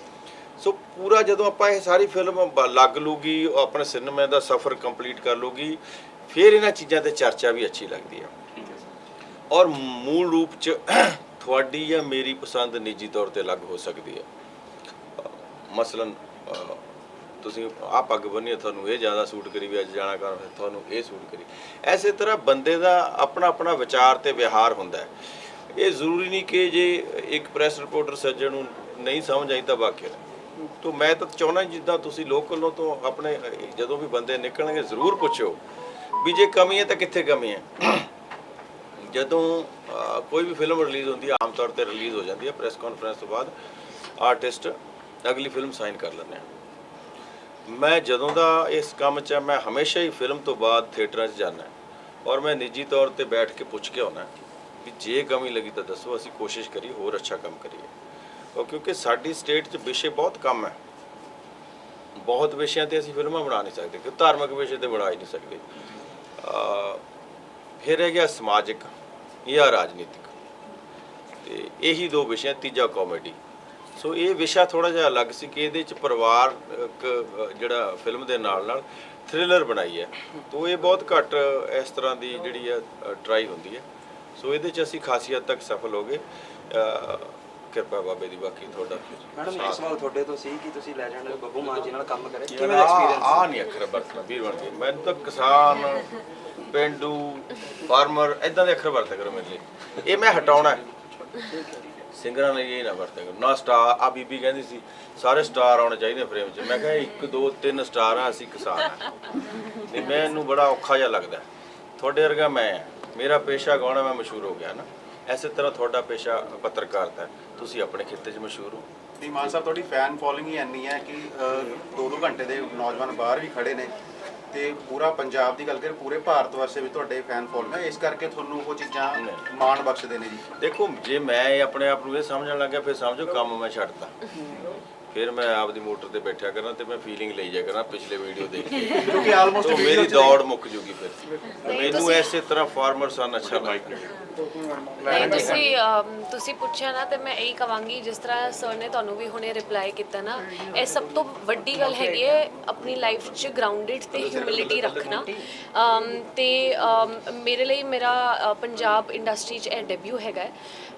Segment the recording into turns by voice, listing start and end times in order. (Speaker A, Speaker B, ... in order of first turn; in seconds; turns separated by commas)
Speaker A: 0.6-8.3, Speaker A: 9.5-14.2, Speaker A: 15.2-16.8, Speaker A: 17.4-25.1, Speaker A: 25.7-30.2, Speaker A: 30.8-35.6, Speaker A: 36.2-38.0, Speaker A: 39.0-43.5, Speaker A: 44.2-46.4, Speaker A: 47.7-51.7, Speaker A: 52.2-54.3, Speaker A: 54.8-57.9, Speaker A: 58.5-60.8, Speaker A: 62.2-65.6, Speaker A: 66.4-67.0, Speaker A: 67.8-68.9, Speaker A: 69.5-70.3, Speaker A: 71.4-73.4, Speaker A: 74.0-83.8, Speaker A: 84.4-90.0, Speaker B: 89.4-93.2, Speaker A: 92.5-96.1, Speaker A: 96.7-100.8, Speaker A: 102.1-109.1, Speaker A: 109.8-111.4, Speaker A: 112.0-118.8, Speaker C: 119.2-123.9, Speaker C: 124.5-130.4, Speaker A: 129.1-129.4, Speaker A: 130.6-134.1, Speaker A: 135.1-144.1, Speaker C: 138.9-140.4, Speaker D: 141.6-142.3, Speaker C: 145.0-145.6, Speaker D: 145.1-160.5